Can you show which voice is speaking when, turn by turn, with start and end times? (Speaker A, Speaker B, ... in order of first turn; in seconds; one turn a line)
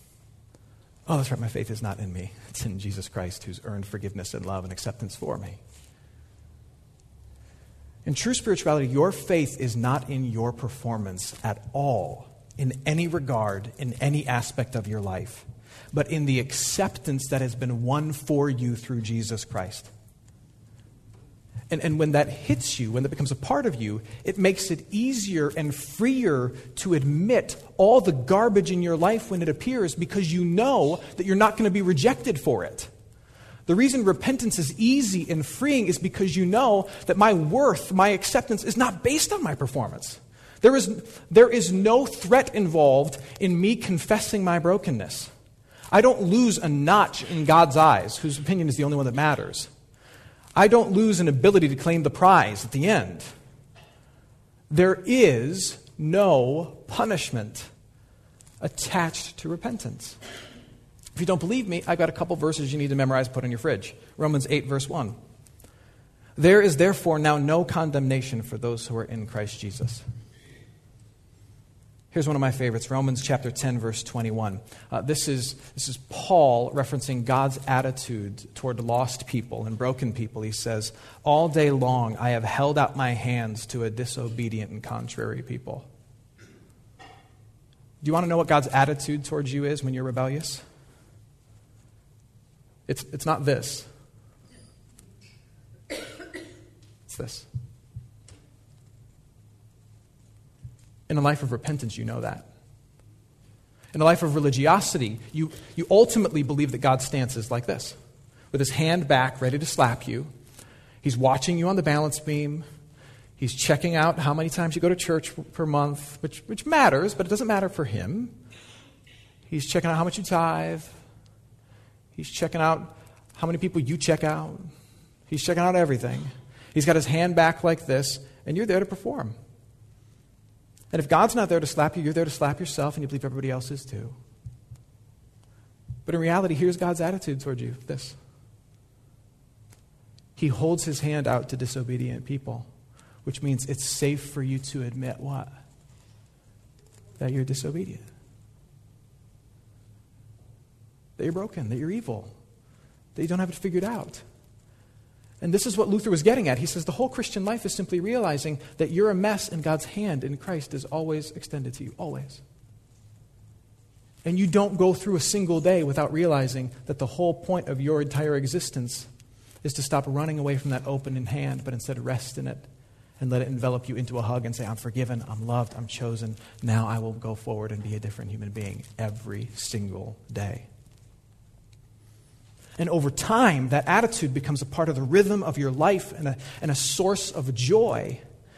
Speaker A: 1.1-5.6
Speaker A: 8.1-19.9
Speaker A: 21.7-32.9
Speaker A: 33.7-45.3
Speaker A: 45.9-49.7
Speaker A: 50.5-53.2
Speaker A: 54.7-57.7
Speaker A: 58.6-60.2
Speaker A: 61.1-65.2
Speaker A: 66.3-70.0
Speaker A: 72.1-85.9
Speaker A: 88.0-90.6
Speaker A: 92.9-93.9
Speaker A: 97.1-97.5
Speaker A: 101.1-102.5
Speaker A: 103.9-108.0
Speaker A: 108.5-110.3
Speaker A: 111.0-112.6
Speaker A: 113.4-118.3
Speaker A: 119.5-120.9
Speaker A: 122.1-124.7
Speaker A: 125.3-129.3
Speaker A: 130.9-134.1
Speaker A: 136.1-138.2
Speaker A: 140.4-142.7
Speaker A: 143.2-145.5
Speaker A: 147.2-148.0
Speaker A: 151.2-152.3
Speaker A: 153.1-154.2
Speaker A: 155.4-162.4
Speaker A: 164.2-169.1
Speaker A: 169.6-172.7
Speaker A: 173.2-180.7
Speaker A: 182.8-188.2